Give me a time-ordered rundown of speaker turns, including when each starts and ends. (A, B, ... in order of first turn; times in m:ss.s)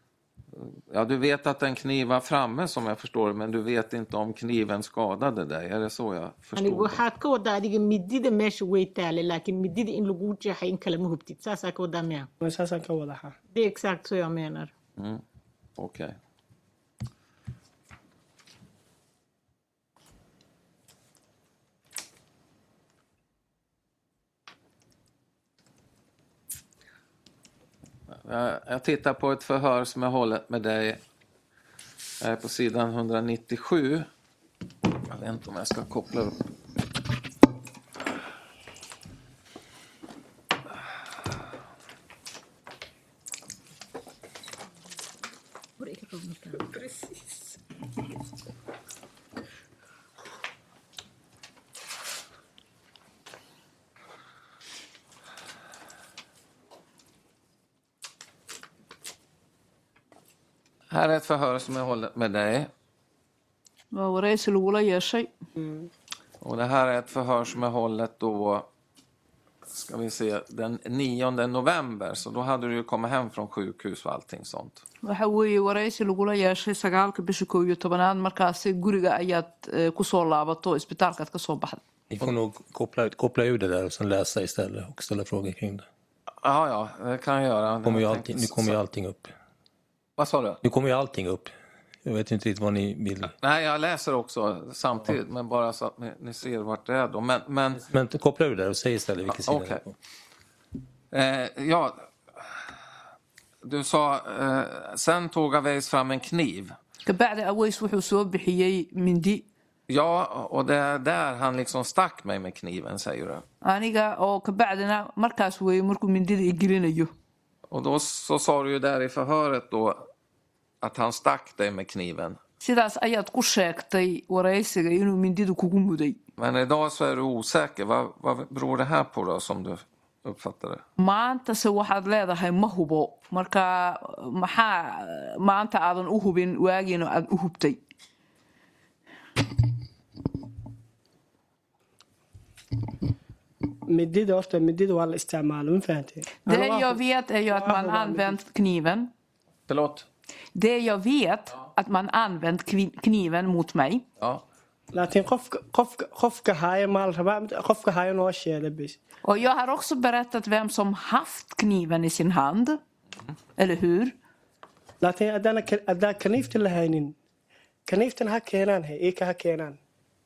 0:00.6-0:07.0 A
0:06.6-0:12.3 B
0:12.4-0:13.4 C
0:13.5-0:14.7 B
0:15.0-0:15.2 A
0:15.8-0:16.2 A
0:28.1-0:31.0 A
0:32.2-0:34.1 A
0:34.9-0:36.4 A
0:45.8-0:46.8 B
1:00.9-1:02.7 A
1:03.9-1:05.3 D
1:05.6-1:05.9 C
1:06.4-1:08.7 A
1:09.7-1:14.8 A
1:15.0-1:21.8 D
1:22.1-1:25.9 E
1:26.4-1:28.8 A
1:27.8-1:29.3 E
1:30.2-1:30.6 A
1:30.6-1:31.5 E
1:32.0-1:33.3 E
1:33.4-1:37.8 A
1:37.8-1:40.0 E
1:39.3-1:39.8 A
1:41.1-1:42.6 A
1:43.6-1:46.7 A
1:47.0-1:49.4 D
1:49.9-1:53.4 A
1:53.6-1:57.1 D
1:57.7-2:00.1 A
2:00.8-2:02.4 A
2:02.6-2:06.2 D
2:06.4-2:10.8 A
2:11.0-2:17.8 D
2:23.9-2:28.4 C
2:26.4-2:29.1 D
2:29.7-2:30.1 A
2:30.6-2:34.0 D
2:34.9-2:39.0 C
2:39.2-2:42.8 D
2:43.6-2:44.1 D
2:45.0-2:47.2 C
2:47.9-2:49.8 C